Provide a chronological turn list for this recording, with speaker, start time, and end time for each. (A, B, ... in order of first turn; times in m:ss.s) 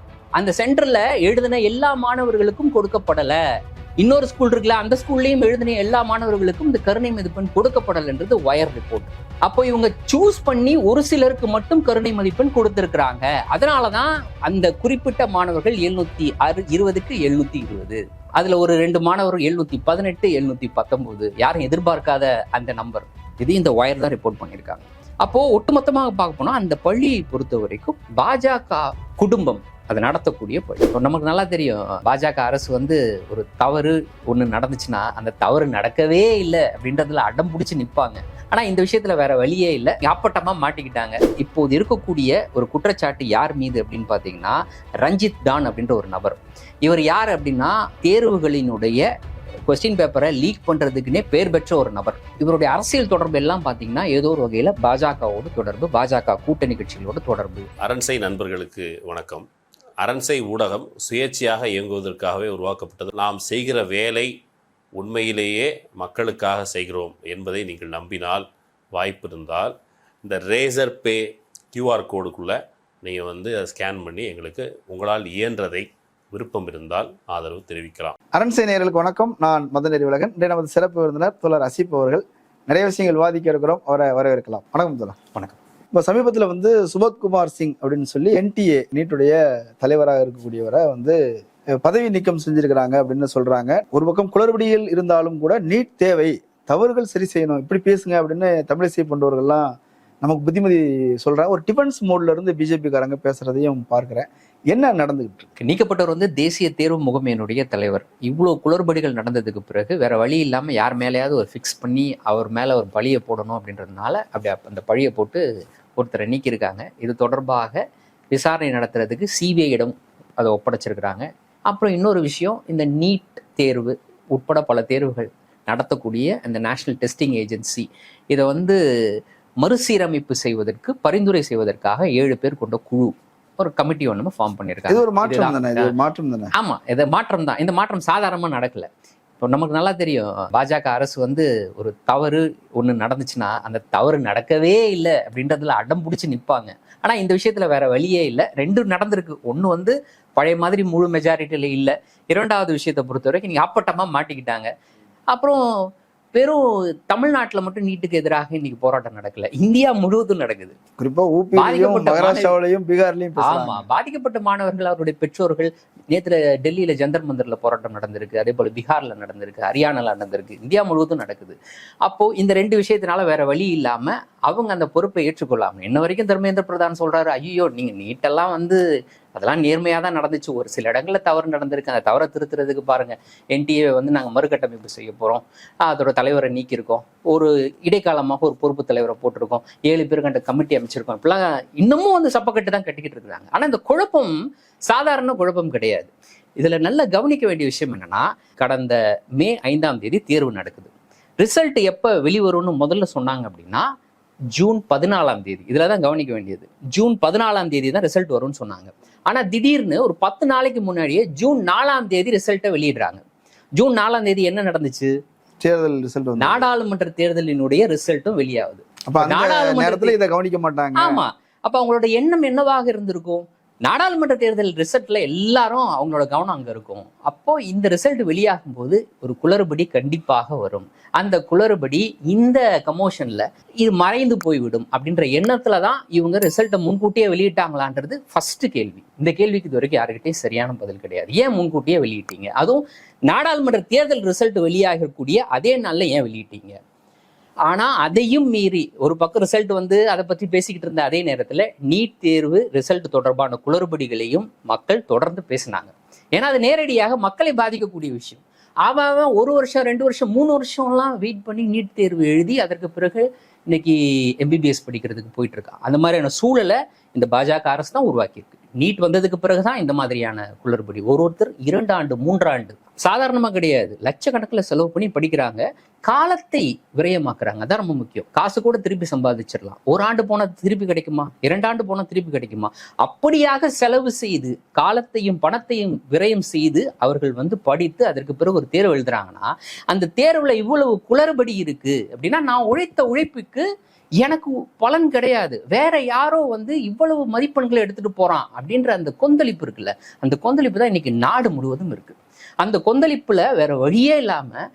0:00.4-0:03.4 A
0:04.0-0:49.0 A
0:49.7-0:57.7 A
0:57.8-0:59.4 B
1:00.0-1:04.3 B
1:05.0-1:18.1 B
1:18.3-1:25.2 C
1:25.9-1:31.2 C
1:31.8-1:39.7 C
1:40.2-1:45.5 C
1:45.6-1:55.4 A
1:56.0-1:57.8 A
1:58.3-2:08.8 A
2:09.6-2:15.9 A
2:14.9-2:16.5 C
2:16.5-2:18.9 A
2:19.4-2:34.7 A
2:35.3-2:35.6 A
2:36.3-2:40.8 A
2:41.0-2:43.8 C
2:41.5-2:42.5 A
2:43.4-2:58.8 A
2:59.3-3:23.8 A
3:24.5-3:33.2 A
3:33.8-3:35.1 A
3:35.6-3:36.6 C
3:36.4-3:40.2 A
3:39.1-3:41.2 C
3:41.0-4:06.8 A
4:07.7-4:53.6 A
4:54.2-5:04.6 A